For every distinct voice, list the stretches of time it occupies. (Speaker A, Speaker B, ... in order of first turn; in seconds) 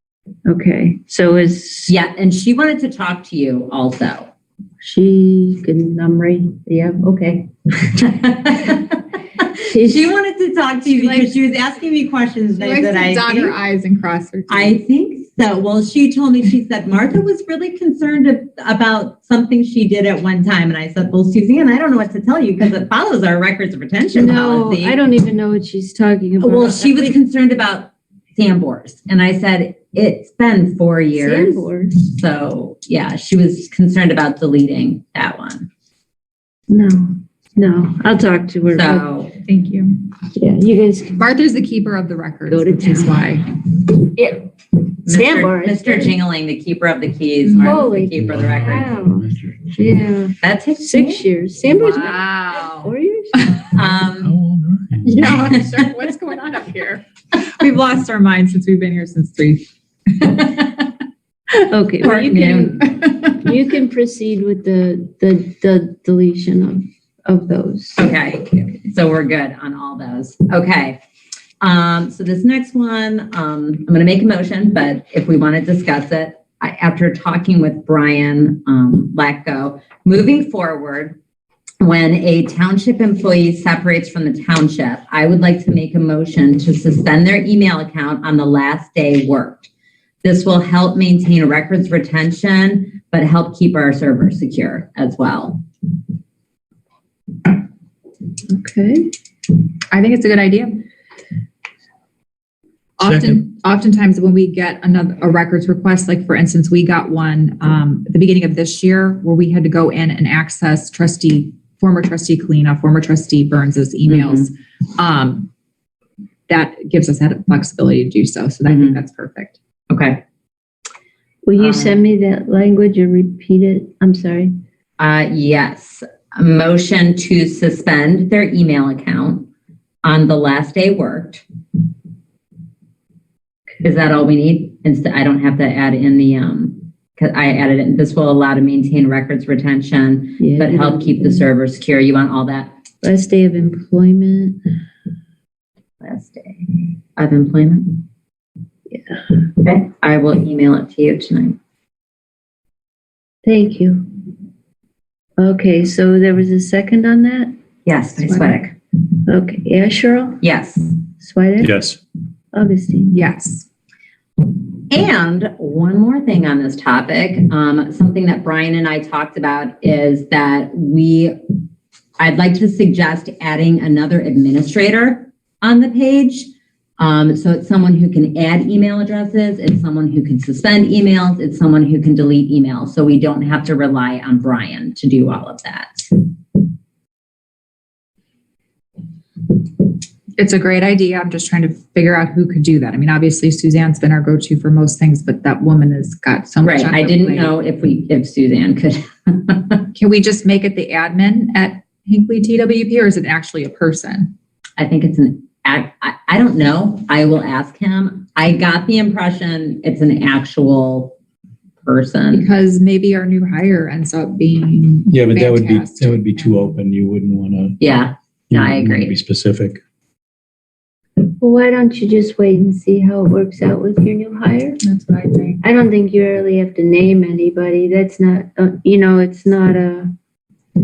Speaker A: 0.5-1.9, 4.8-8.1, 9.6-10.2, 10.9-11.3, 24.1-27.2, 31.1-32.0, 36.7-39.1, 40.3-41.2, 42.5-43.2, 44.0-44.5, 45.1-46.2, 47.6-53.8, 61.6-68.1, 98.5-99.1, 121.5-124.5, 140.4-141.5, 143.0-144.6, 148.9-149.2, 153.4-154.1, 155.4-157.5, 158.2-158.6, 159.2-160.4, 161.2-161.9, 162.5-163.2, 221.4-224.8, 225.6-230.1
Speaker B: 1.9-4.3, 8.1-13.6, 14.5-25.0, 26.4-35.7, 38.7-39.4, 45.0-48.9, 50.4-51.2, 53.7-54.4, 62.0-62.8, 68.0-71.0, 71.6-81.2, 81.8-89.7, 90.2-95.6, 114.1-114.5, 118.7-119.0, 119.9-120.2, 121.6-122.0, 125.0-129.5, 130.0-131.4, 133.8-142.8, 146.0-148.0, 149.6-151.6, 157.9-158.7, 160.4-160.9, 164.9-171.3, 172.2-186.2, 196.6-199.8, 204.8-211.2, 211.8-212.5, 217.8-219.2
Speaker C: 12.6-14.8, 39.4-40.0, 41.2-43.5, 47.5-47.8, 51.8-53.7, 55.0-60.8, 99.9-100.9, 103.0-115.5, 116.5-119.6, 163.1-163.7, 190.4-197.5, 199.9-204.3, 212.3-216.8, 224.8-225.6
Speaker D: 48.1-49.5, 54.2-55.7, 103.0-103.4, 161.6-162.0, 215.1-217.8, 218.5-219.8